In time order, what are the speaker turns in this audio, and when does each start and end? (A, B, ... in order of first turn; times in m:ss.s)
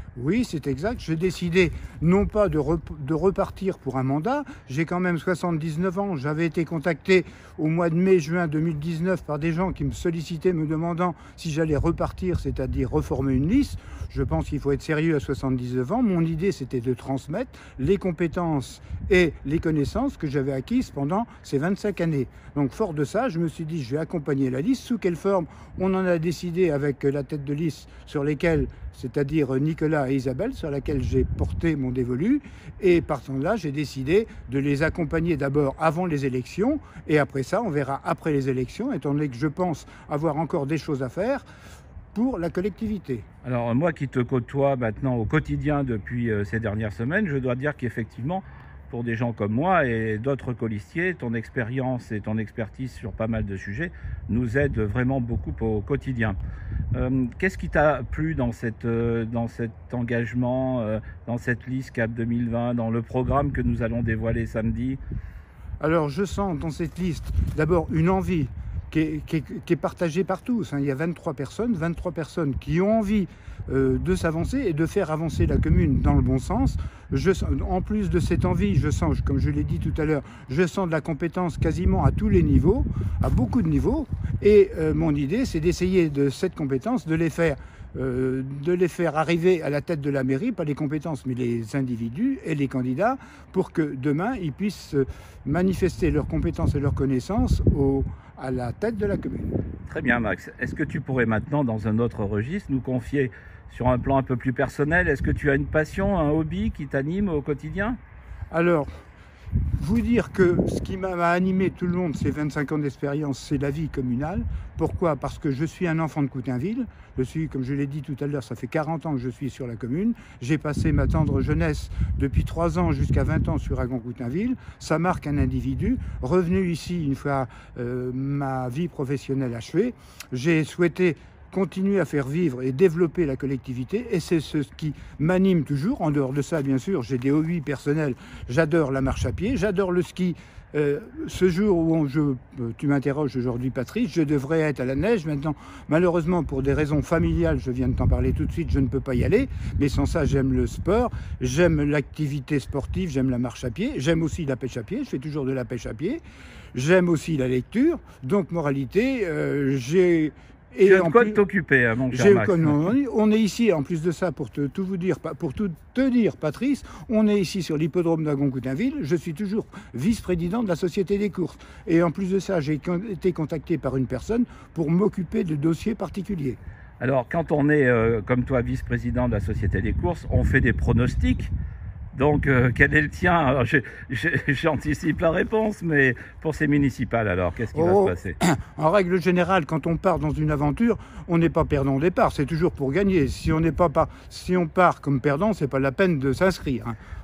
0:00.2-0:41.4 A
0:42.1-0:43.3 A
0:43.4-0:56.4 B
0:56.9-1:05.0 B
1:05.8-1:39.6 A
1:39.9-1:48.0 B
1:48.5-1:48.9 A
1:49.8-2:36.2 A
2:36.7-2:41.4 A
2:40.8-2:42.9 B
2:42.1-2:56.6 A
2:57.0-3:01.5 B
3:02.1-3:08.4 B
3:07.7-3:17.0 A